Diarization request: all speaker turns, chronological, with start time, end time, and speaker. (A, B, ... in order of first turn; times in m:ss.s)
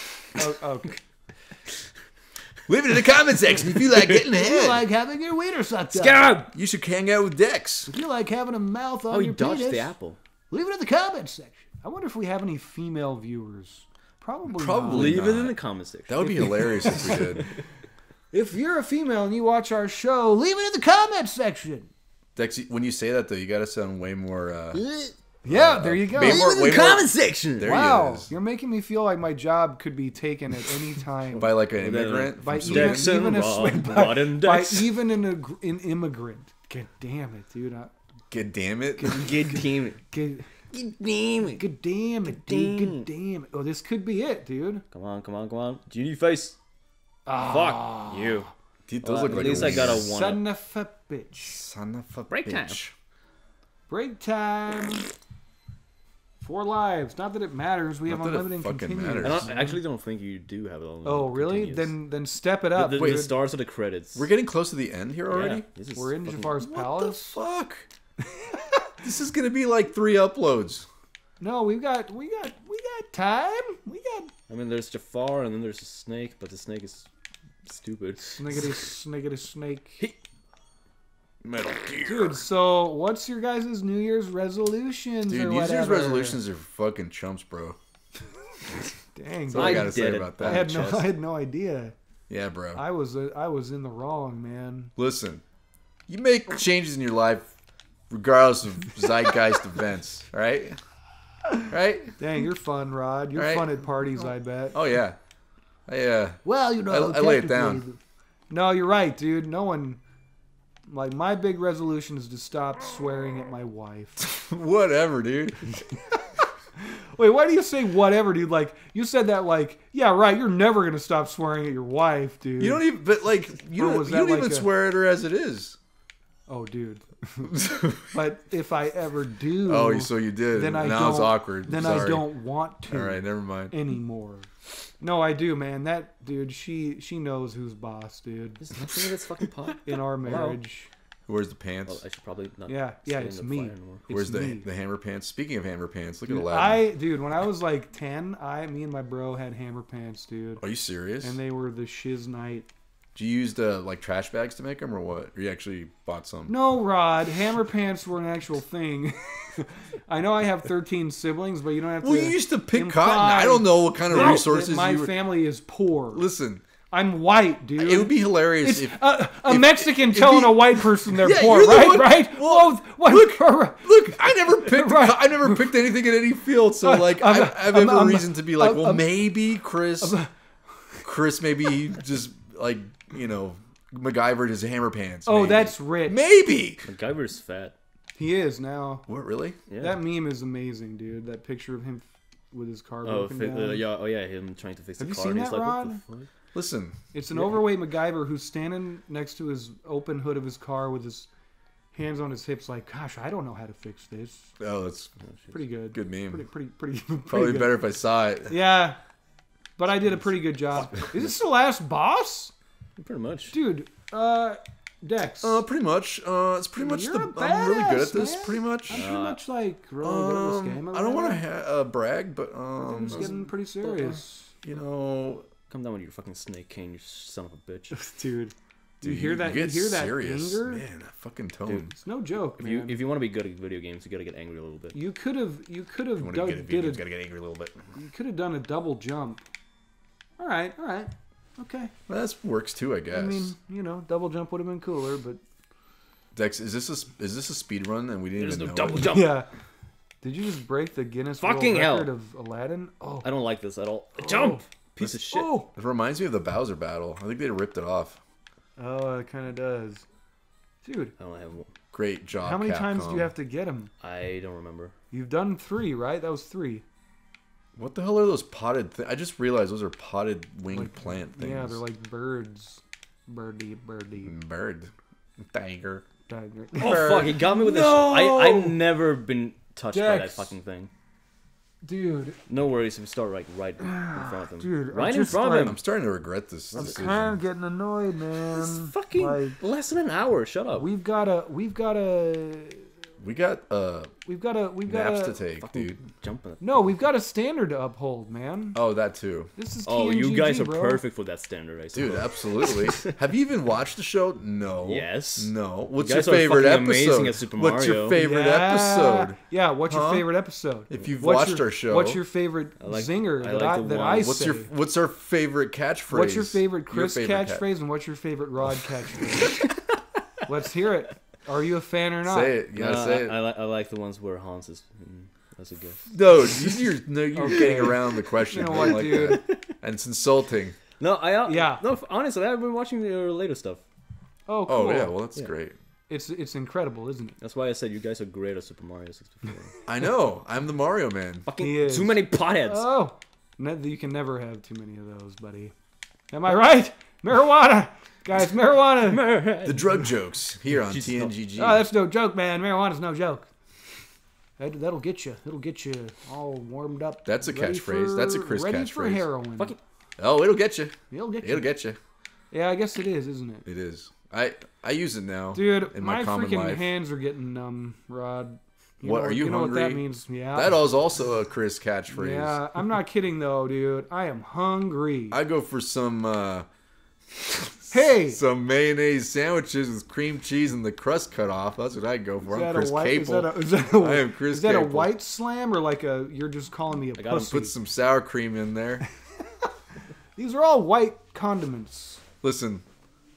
0:00.4-0:01.0 A
0:02.7-0:04.9 B
0:04.1-0:06.4 A
0:05.9-0:06.5 C
0:06.5-0:07.9 B
0:07.9-0:09.9 A
0:09.1-0:10.2 C
0:10.5-0:15.2 A
0:14.5-0:15.6 B
0:14.9-0:17.2 C
0:16.1-0:17.5 B
0:16.3-0:17.4 A
0:18.3-0:21.9 A
0:22.4-0:24.8 B
0:24.7-0:25.2 C
0:25.4-0:26.6 A
0:25.5-0:28.3 B
0:26.2-0:27.7 C
0:27.6-0:31.5 A
0:31.4-0:33.2 B
0:31.7-0:34.9 C
0:32.4-0:37.9 A
0:38.3-0:39.3 B
0:39.0-0:40.5 A
0:39.0-0:40.0 C
0:40.7-0:41.6 C
0:41.5-0:44.8 A
0:42.3-0:43.1 C
0:44.9-0:46.6 C
0:47.3-0:48.5 A
0:47.3-0:48.5 C
0:48.9-0:50.1 B
0:49.0-0:50.4 C
0:49.3-0:51.6 A
0:51.5-0:52.9 B
0:52.3-0:52.8 C
0:53.9-0:55.1 A
0:56.4-0:59.8 A
0:58.1-0:59.5 B
0:59.2-1:02.0 C
1:01.0-1:03.4 A
1:02.8-1:04.3 C
1:03.0-1:03.3 B
1:04.2-1:05.7 B
1:05.3-1:06.6 C
1:06.0-1:07.4 A
1:06.6-1:07.9 B
1:08.2-1:08.9 A
1:09.0-1:10.9 B
1:11.4-1:14.3 A
1:14.5-1:17.1 C
1:17.7-1:18.9 C
1:18.2-1:20.0 A
1:21.4-1:22.4 B
1:22.0-1:26.4 A
1:25.3-1:27.8 B
1:29.1-1:31.9 A
1:29.5-1:30.7 B
1:29.5-1:31.1 C
1:32.3-1:32.8 B
1:32.7-1:34.9 A
1:35.0-1:35.4 B
1:36.1-1:37.5 B
1:38.1-1:40.8 B
1:41.7-1:42.2 B
1:42.2-1:44.8 A
1:43.4-1:43.7 B
1:44.7-1:45.2 B
1:45.9-1:47.8 B
1:46.4-1:48.0 A
1:48.5-1:50.0 A
1:50.9-1:54.2 A
1:54.2-1:55.8 B
1:56.8-2:02.8 A
2:02.6-2:05.8 B
2:03.7-2:04.7 A
2:06.5-2:18.7 A
2:07.5-2:08.1 B
2:09.6-2:12.3 B
2:12.9-2:13.7 B
2:18.6-2:20.6 C
2:19.8-2:20.9 A
2:21.3-2:22.0 B
2:21.9-2:24.1 C
2:22.7-2:24.7 A
2:24.1-2:26.9 B
2:26.3-2:30.6 A
2:30.6-2:31.4 B
2:31.2-2:32.7 A
2:33.2-2:36.6 B
2:36.5-2:46.3 A
2:42.0-2:45.2 B
2:44.1-2:44.5 C
2:46.1-2:46.6 B
2:46.9-2:55.7 A
2:47.8-3:00.2 B
2:56.8-2:59.2 A
3:00.0-3:00.3 A
3:01.0-3:06.9 B
3:05.3-3:06.3 A
3:06.8-3:07.8 C
3:08.2-3:09.1 A
3:09.1-3:09.6 B
3:09.7-3:10.0 C
3:09.8-3:13.8 A
3:13.0-3:16.3 C
3:15.0-3:16.0 A
3:16.6-3:17.0 B
3:17.1-3:21.3 A
3:21.9-3:24.5 A
3:24.6-3:25.1 B
3:25.5-3:27.8 A
3:25.9-3:26.4 B
3:27.3-3:28.6 B
3:28.5-3:29.0 A
3:29.8-3:32.5 A
3:33.0-3:33.6 C
3:33.5-3:35.6 A
3:35.4-3:39.1 B
3:36.8-3:41.4 A
3:38.9-3:39.4 C
3:40.0-3:43.3 B
3:42.8-3:44.5 A
3:43.1-3:44.2 C
3:44.6-3:45.5 B
3:45.7-3:48.0 C
3:47.9-3:50.8 A
3:49.0-3:51.9 B
3:51.9-3:53.0 A
3:52.6-3:55.0 C
3:54.9-3:57.0 A
3:56.2-3:57.8 B
3:58.0-3:59.4 A
4:00.4-4:01.9 A
4:02.1-4:03.5 B
4:03.1-4:05.4 A
4:06.4-4:09.2 B
4:08.4-4:09.4 C
4:09.0-4:09.5 A
4:10.2-4:13.3 A
4:11.4-4:12.1 C
4:13.2-4:15.5 C
4:14.2-4:15.7 A
4:15.7-4:18.2 B
4:18.8-4:20.1 A
4:20.8-4:21.1 A
4:21.2-4:21.7 C
4:21.9-4:23.3 B
4:22.4-4:23.9 A
4:24.0-4:24.9 C
4:25.1-4:26.8 A
4:27.8-4:31.8 B
4:30.7-4:34.4 A
4:34.2-4:36.0 B
4:36.3-4:38.8 A
4:36.7-4:37.4 B
4:36.8-4:40.9 C
4:39.9-4:40.6 A
4:41.8-4:42.4 A
4:42.5-4:45.8 C
4:43.8-4:45.8 A
4:45.5-4:47.4 B
4:46.7-4:47.2 C
4:46.8-4:49.6 A
4:48.3-4:50.9 C
4:50.8-4:52.9 A
4:53.2-4:54.1 B
4:54.3-4:55.4 A
4:54.9-4:56.0 B
4:55.6-4:57.0 C
4:56.6-4:58.8 A
4:58.8-4:59.5 B
4:59.6-5:01.0 A
4:59.8-5:03.1 C
5:01.9-5:10.3 B
5:04.8-5:08.2 C
5:08.2-5:14.7 A
5:10.9-5:12.2 B
5:12.8-5:14.4 C
5:14.2-5:17.6 B
5:16.1-5:19.6 A
5:20.4-5:22.6 A
5:22.3-5:23.4 B
5:22.8-5:26.9 C
5:26.1-5:30.8 B
5:27.4-5:29.4 A
5:27.5-5:28.2 C
5:28.7-5:29.6 C
5:31.0-5:33.8 C
5:31.5-5:31.8 A
5:34.5-5:35.2 A
5:34.7-5:35.8 B
5:36.1-5:37.4 A
5:37.4-5:39.8 C
5:39.9-5:41.5 B
5:41.5-5:42.9 C
5:41.6-5:45.7 A
5:46.3-5:49.4 A
5:49.0-5:50.0 C
5:49.6-5:51.8 B
5:50.8-5:51.3 C
5:51.6-5:53.5 A
5:54.6-5:59.8 A
5:57.3-5:59.3 B
6:00.2-6:02.0 B
6:01.1-6:01.7 A
6:02.5-6:03.7 A
6:03.7-6:06.9 B
6:05.5-6:10.8 A
6:09.0-6:12.6 B
6:12.1-6:15.4 A
6:15.3-6:16.7 B
6:17.3-6:25.2 B
6:17.9-6:18.4 A
6:22.4-6:27.8 A
6:27.2-6:27.6 C
6:27.4-6:29.0 B
6:30.4-6:32.2 A
6:32.4-6:32.8 B